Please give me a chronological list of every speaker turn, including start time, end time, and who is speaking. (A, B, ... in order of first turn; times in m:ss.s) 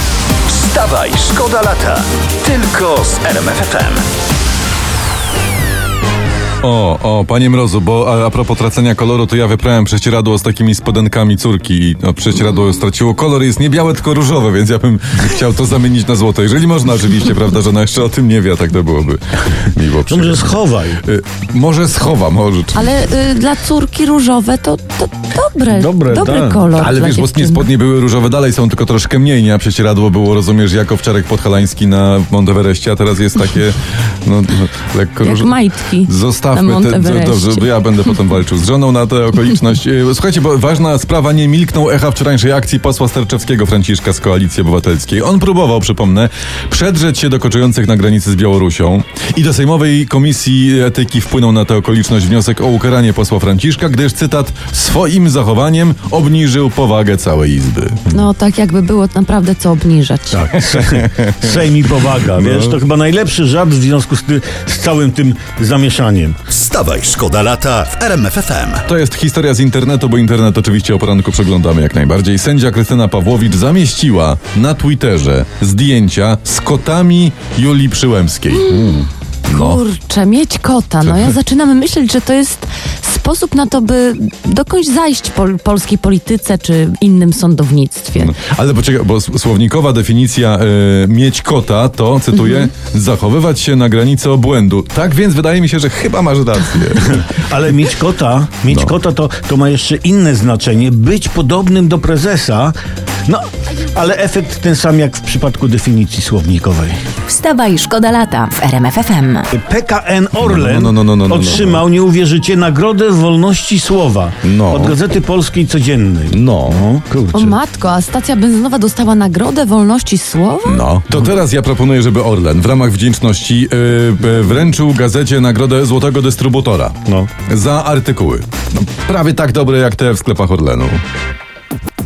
0:00.5-0:04.1 A
0:06.6-0:22.9 B
0:20.1-0:21.0 C
0:22.8-0:27.7 D
0:25.7-0:26.6 C
0:26.8-0:58.0 B
0:35.2-0:38.2 D
0:58.1-1:00.5 D
1:00.3-1:06.4 C
1:00.7-1:01.6 B
1:02.4-1:02.8 B
1:06.5-1:08.8 A
1:08.9-1:19.8 B
1:18.5-1:28.3 D
1:21.0-1:21.3 B
1:28.2-1:37.3 B
1:37.1-1:42.8 C
1:43.3-1:47.0 C
1:47.3-1:49.5 E
1:49.5-1:57.6 C
1:50.4-1:51.8 B
1:54.4-1:55.0 B
1:56.3-1:56.8 B
1:57.3-2:00.8 D
2:00.7-2:11.0 B